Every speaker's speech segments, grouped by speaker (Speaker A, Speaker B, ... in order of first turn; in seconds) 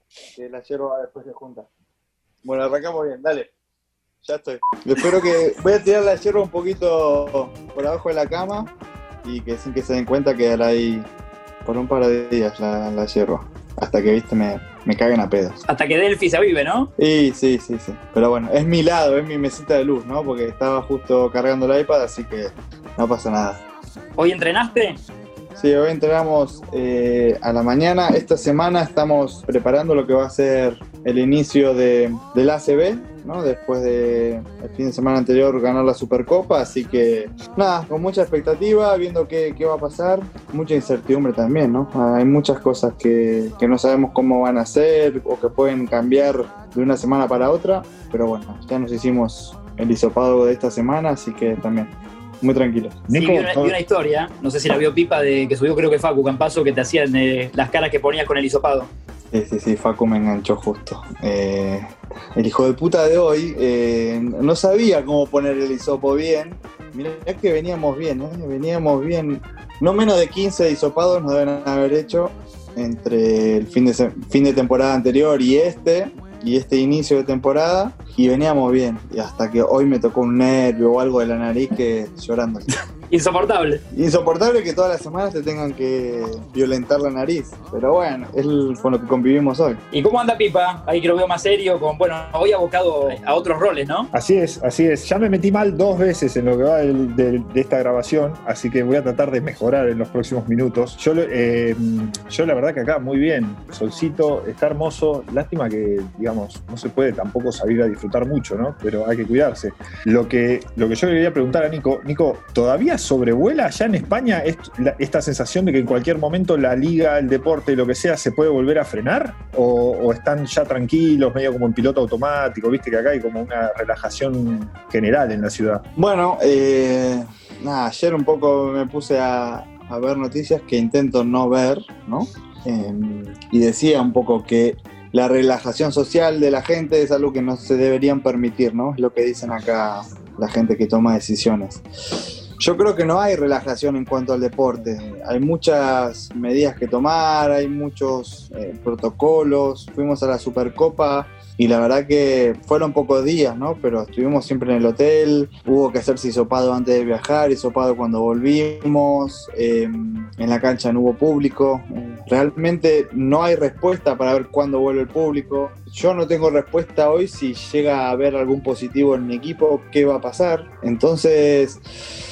Speaker A: 0.3-1.7, 2.4-3.5, 4.2-8.7, 9.2-11.1, 11.6-15.6, 17.0-23.6, 25.6-53.0, 59.3-82.7, 83.9-89.8, 126.0-141.8, 142.6-171.8
Speaker B: 15.7-16.9, 24.2-25.0, 53.1-58.9, 83.1-83.8, 89.9-94.1
Speaker C: 53.1-53.8, 94.1-125.8